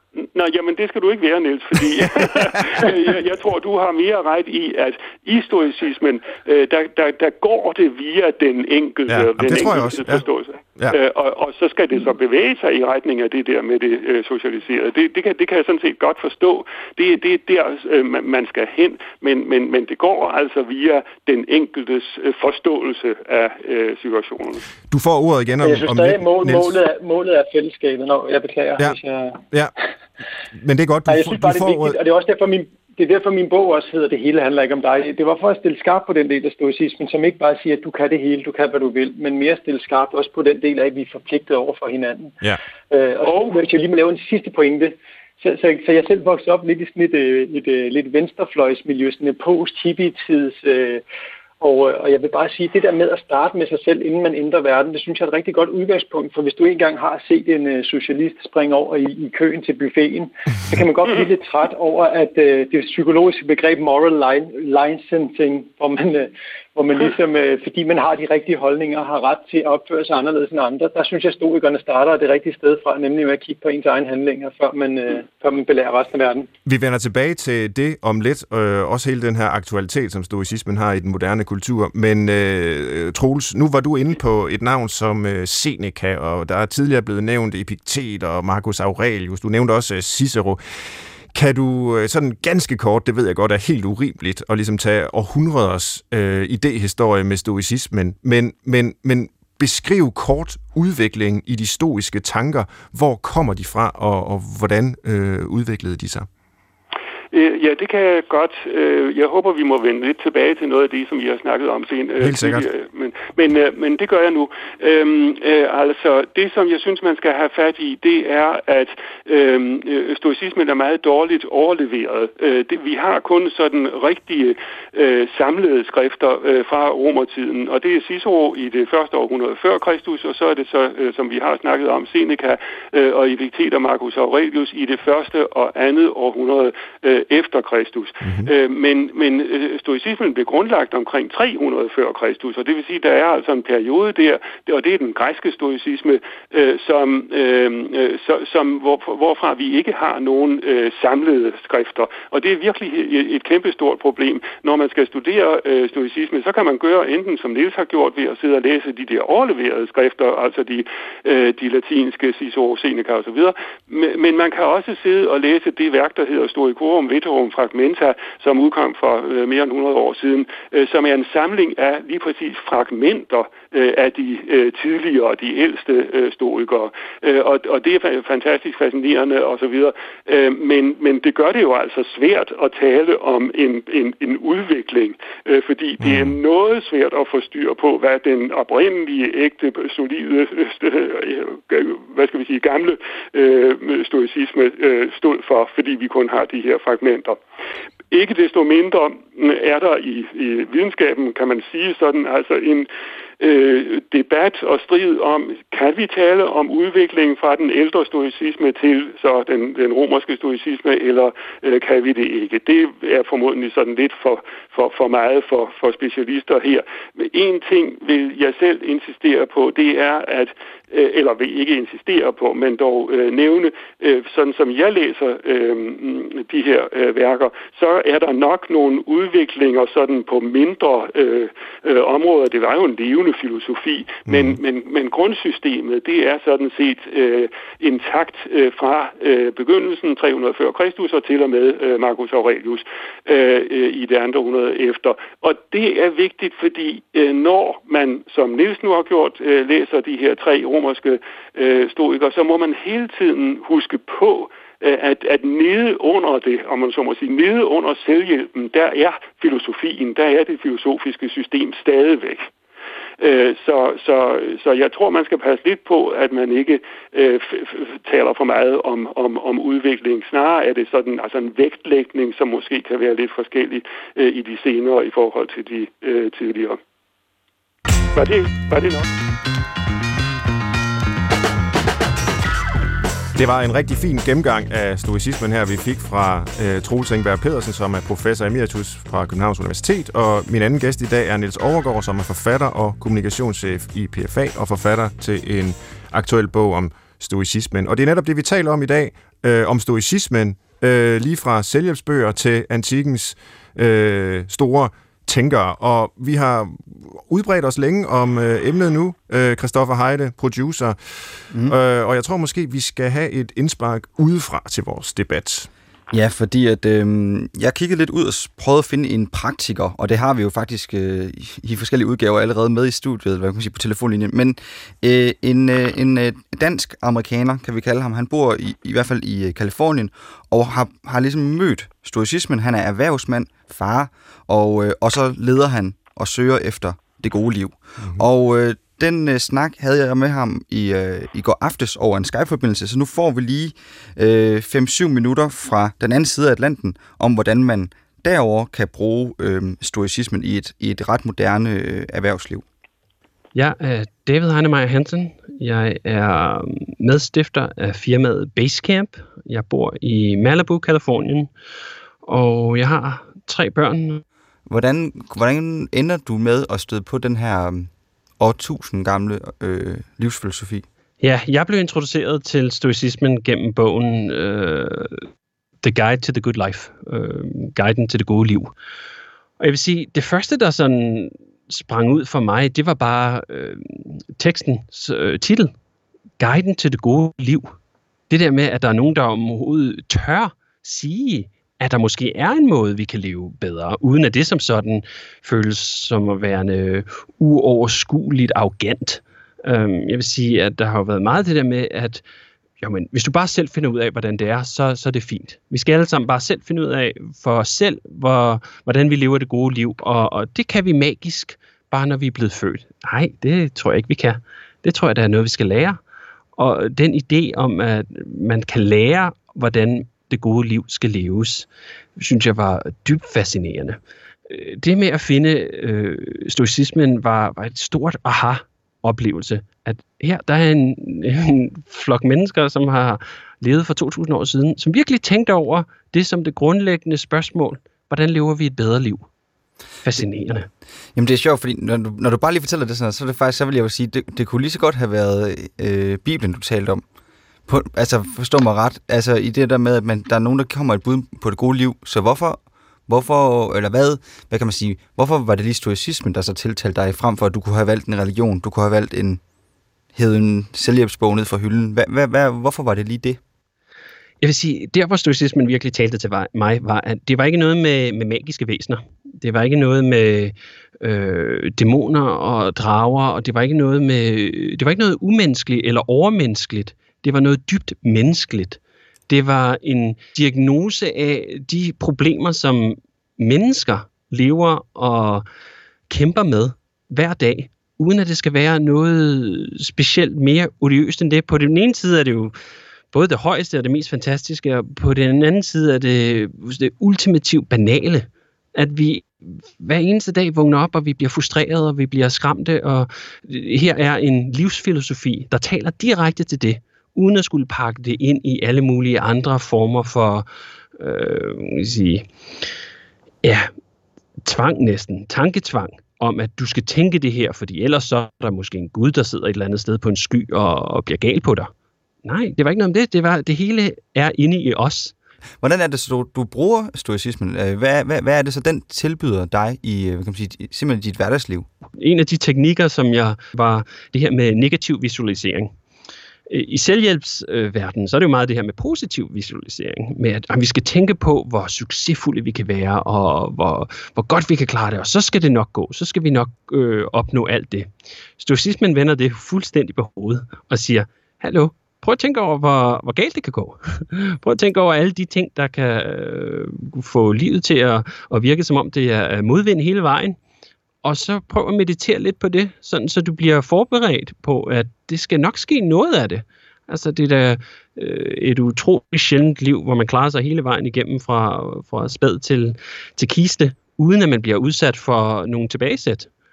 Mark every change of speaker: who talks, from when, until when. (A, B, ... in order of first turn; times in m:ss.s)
0:00.2-0:24.6 A
0:09.1-0:10.2 B
0:24.9-0:26.7 B
0:25.6-0:29.4 C
0:30.6-0:32.0 B
0:31.1-0:51.0 C
0:43.2-0:43.5 A
0:51.6-1:16.5 C
1:16.6-1:30.6 B
1:31.3-1:46.3 B
1:47.3-3:17.4 A
1:52.2-1:52.6 B
2:18.2-2:18.5 B
3:06.0-3:06.4 B
3:18.1-3:22.9 A
3:23.4-4:22.5 A
3:54.3-3:54.6 B
4:23.2-4:36.8 A
4:38.1-4:39.1 A
4:43.3-5:11.0 B
5:11.7-5:15.7 B
5:16.1-5:52.6 D
5:53.5-6:01.5 E
6:02.2-6:04.2 E
6:04.7-6:10.9 D
6:11.2-6:15.3 E
6:15.8-6:18.7 E
6:19.6-6:25.7 E
6:26.4-6:27.7 E
6:28.3-6:42.2 E
6:42.8-6:56.0 E
6:56.6-7:19.2 E
7:20.0-7:20.7 E
7:21.1-7:27.0 D
7:27.7-7:39.4 D
7:40.1-7:43.4 D
7:44.4-8:05.4 E
8:06.1-8:12.5 E
8:13.1-8:30.5 E
8:31.0-8:32.6 E
8:33.4-8:33.7 E
8:34.4-8:41.7 E
8:42.2-8:45.1 E
8:45.6-8:51.7 D
8:52.0-8:55.7 E
8:56.5-9:20.4 E
9:21.0-9:36.3 E